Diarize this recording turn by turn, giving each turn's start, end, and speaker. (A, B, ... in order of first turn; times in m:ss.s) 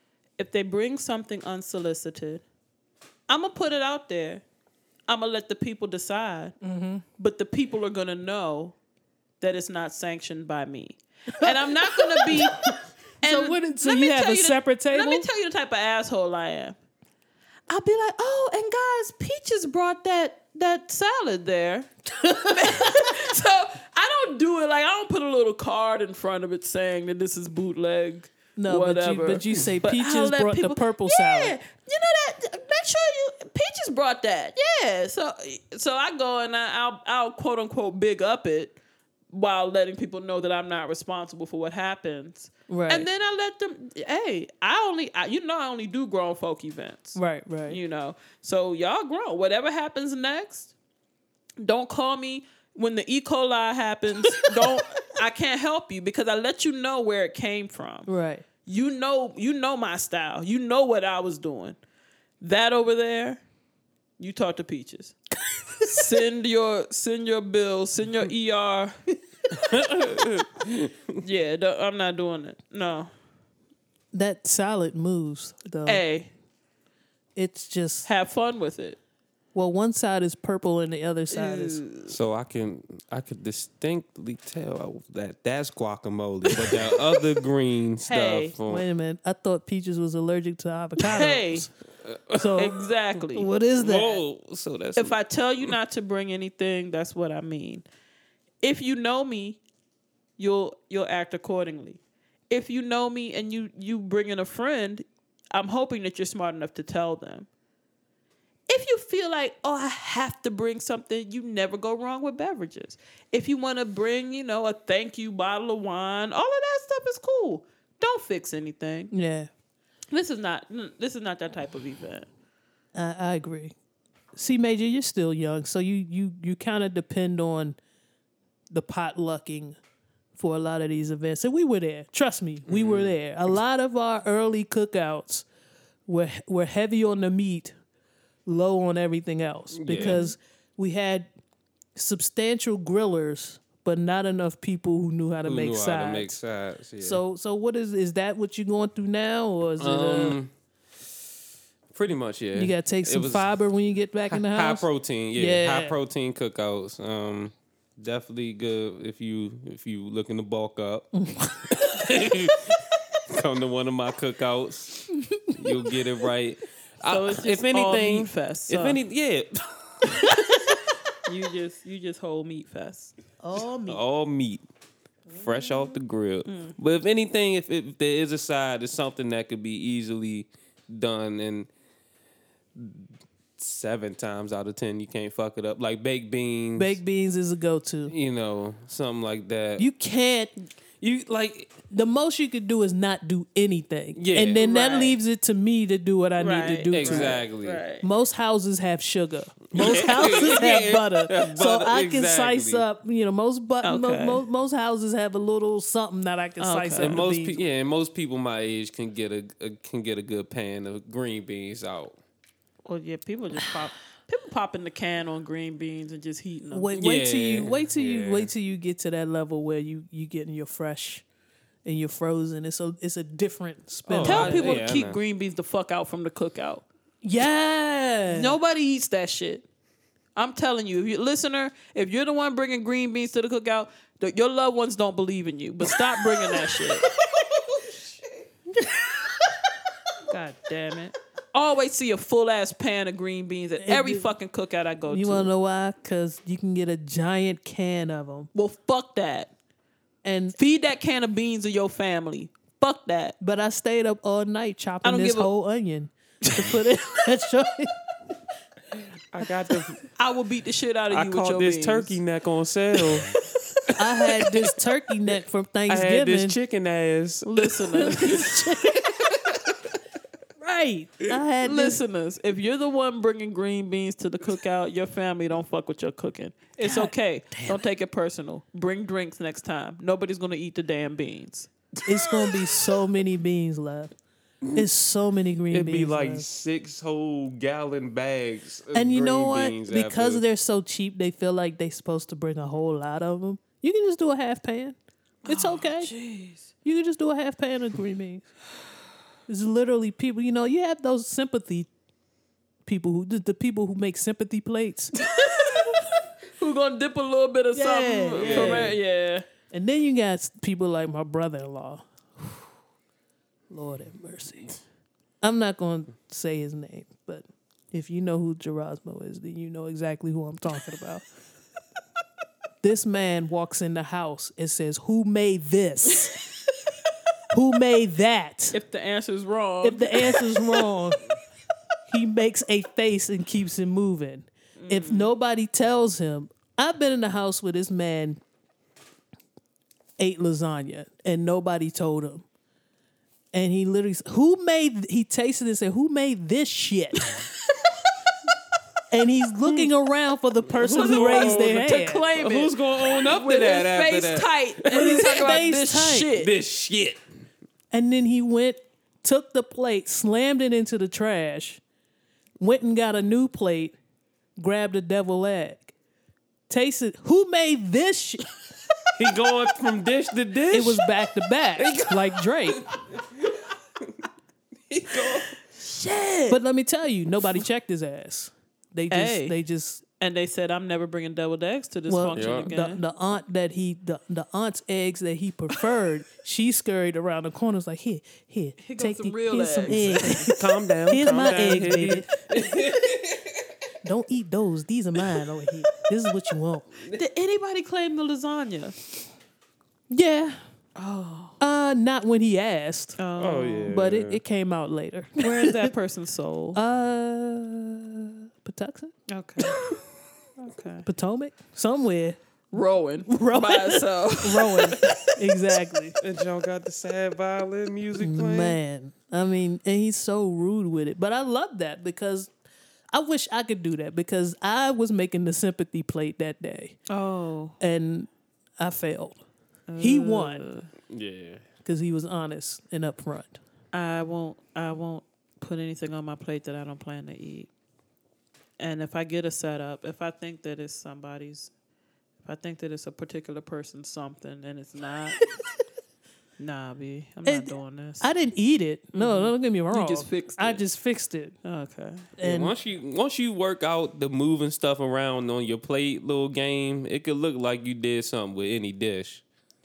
0:00.4-0:02.4 A
0:03.3-0:04.4 A
0:05.1-0:06.5 A
0:06.6-0:07.0 B
0:07.2-0:08.8 A
0:09.4-0:12.7 A
0:11.4-0:12.6 B
0:13.2-0:15.3 B
0:13.2-0:16.8 A
0:17.7-0:38.8 A
0:22.2-0:23.1 B
0:28.6-0:31.6 B
0:39.3-0:50.7 A
0:42.7-0:43.1 B
0:47.2-0:47.8 B
0:51.6-0:58.1 A
0:58.0-0:58.4 B
0:58.6-1:01.8 A
1:02.4-1:03.4 A
1:04.2-1:05.2 A
1:05.9-1:09.0 A
1:09.6-1:11.2 C
1:11.2-1:13.1 A
1:14.1-1:16.0 B
1:15.8-1:16.3 A
1:17.4-1:18.1 B
1:18.0-1:19.0 A
1:19.5-1:21.8 B
1:21.3-1:22.2 A
1:22.1-1:28.8 C
1:28.1-1:28.5 A
1:28.6-1:31.7 B
1:31.0-1:31.7 A
1:32.0-1:32.6 C
1:32.3-1:32.8 B
1:32.5-1:33.5 A
1:33.3-1:34.2 B
1:33.8-1:35.8 C
1:35.0-1:37.8 A
1:38.6-1:39.6 A
1:40.4-1:47.5 A
1:48.7-1:59.1 A
1:59.1-1:59.5 B
2:00.1-2:02.3 A
2:02.9-2:03.7 B
2:04.3-2:07.8 B
2:08.7-2:09.8 B
2:10.4-2:15.4 B
2:12.7-2:13.1 C
2:16.1-2:17.7 B
2:18.4-2:21.3 B
2:19.7-2:20.2 C
2:20.0-2:20.3 A
2:22.0-2:26.4 B
2:25.4-2:27.2 C
2:27.0-2:30.4 B
2:29.8-2:30.5 C
2:31.9-2:33.5 C
2:32.5-2:36.0 B
2:34.3-2:41.1 C
2:41.1-2:41.7 B
2:41.7-2:50.6 C
2:47.0-2:49.0 A
2:51.2-2:53.1 A
2:53.4-2:54.0 B
2:53.9-2:54.6 C
2:55.3-3:01.7 C
2:56.4-2:56.7 A
3:02.8-3:07.0 C
3:06.8-3:08.1 B
3:08.1-3:09.9 C
3:09.8-3:10.5 B
3:11.0-3:11.8 C
3:11.9-3:17.4 B
3:14.2-3:14.6 C
3:14.6-3:15.2 A
3:16.4-3:18.0 A
3:16.9-3:17.8 C
3:18.0-3:27.6 B
3:19.7-3:22.8 C
3:23.8-3:24.4 A
3:26.6-3:27.2 A
3:27.0-3:32.2 C
3:32.8-3:37.0 A
3:36.7-3:41.2 B
3:36.9-3:38.5 C
3:41.8-3:44.8 B
3:44.1-3:45.2 C
3:44.2-3:46.8 A
3:47.2-3:48.6 B
3:48.3-3:49.6 A
3:50.4-3:57.0 A
3:57.3-3:58.4 C
4:00.3-4:05.5 A
4:03.8-4:04.3 B
4:05.1-4:08.5 B
4:08.5-4:09.5 A
4:10.2-4:10.5 B
4:10.6-4:13.4 A
4:13.4-4:17.9 B
4:15.0-4:15.5 A
4:19.3-4:20.0 C
4:20.2-4:22.2 A
4:21.1-4:23.3 C
4:24.0-4:26.6 B
4:25.9-4:28.3 C
4:27.4-4:28.5 A
4:28.0-4:29.0 B
4:29.3-4:29.7 C
4:30.6-4:32.0 B
4:31.6-4:41.7 A
4:36.8-4:37.8 B
4:42.0-4:44.1 B
4:42.3-4:42.6 C
4:44.7-4:46.4 B
4:45.7-4:50.4 C
4:48.9-4:56.1 B
4:55.4-4:56.7 A
4:56.8-4:58.5 B
4:59.5-5:01.9 B
5:02.8-5:05.1 B
5:05.2-5:06.1 A
5:06.6-5:09.4 A
5:07.7-5:09.0 B
5:08.4-5:09.0 C
5:09.7-5:12.6 B
5:13.7-5:14.8 B
5:15.4-5:21.2 B
5:22.8-5:26.4 B
5:27.5-5:28.8 B
5:28.7-5:30.8 A
5:29.8-5:31.2 B
5:32.1-5:38.4 B
5:34.8-5:35.3 A
5:40.2-5:42.4 B
5:43.5-5:47.2 B
5:49.1-5:52.2 B
5:50.8-5:55.5 C
5:50.8-5:56.5 A
5:54.9-5:56.3 B
5:56.3-5:57.2 C
5:57.9-6:01.8 B
6:02.6-6:03.9 B
6:04.6-6:05.9 B
6:06.7-6:08.5 B
6:09.2-6:11.0 C
6:10.7-6:12.9 B
6:11.8-6:14.3 C
6:14.9-6:15.5 C
6:15.2-6:16.6 A
6:16.5-6:20.0 B
6:19.1-6:19.6 A
6:20.2-6:23.0 A
6:22.1-6:32.3 B
6:22.3-6:22.7 C
6:28.8-6:30.5 A
6:29.9-6:33.6 C
6:34.0-6:36.9 B
6:37.1-6:39.0 A
6:40.1-6:40.6 B
6:41.0-6:41.6 A
6:41.6-6:43.2 B
6:43.2-6:43.9 A
6:43.4-6:44.4 C
6:43.9-6:45.9 B
6:45.4-6:46.8 A
6:46.7-6:49.1 B
6:49.3-6:50.0 A
6:50.6-6:51.0 A
6:51.0-6:52.4 B
6:52.7-6:55.3 A
6:53.3-6:56.2 B
6:56.2-6:58.8 C
6:58.2-7:02.5 B
7:03.1-7:07.0 B
7:07.1-7:07.8 A
7:07.8-7:09.4 B
7:09.9-7:10.9 A
7:10.0-7:10.6 B
7:11.1-7:11.6 C
7:11.8-7:13.6 B
7:13.9-7:17.7 A
7:18.8-7:21.7 A
7:22.4-7:25.4 A
7:26.6-7:28.3 A
7:27.4-7:31.5 B
7:29.1-7:30.8 A
7:31.6-7:32.3 A
7:32.4-7:32.7 B
7:32.4-7:39.4 C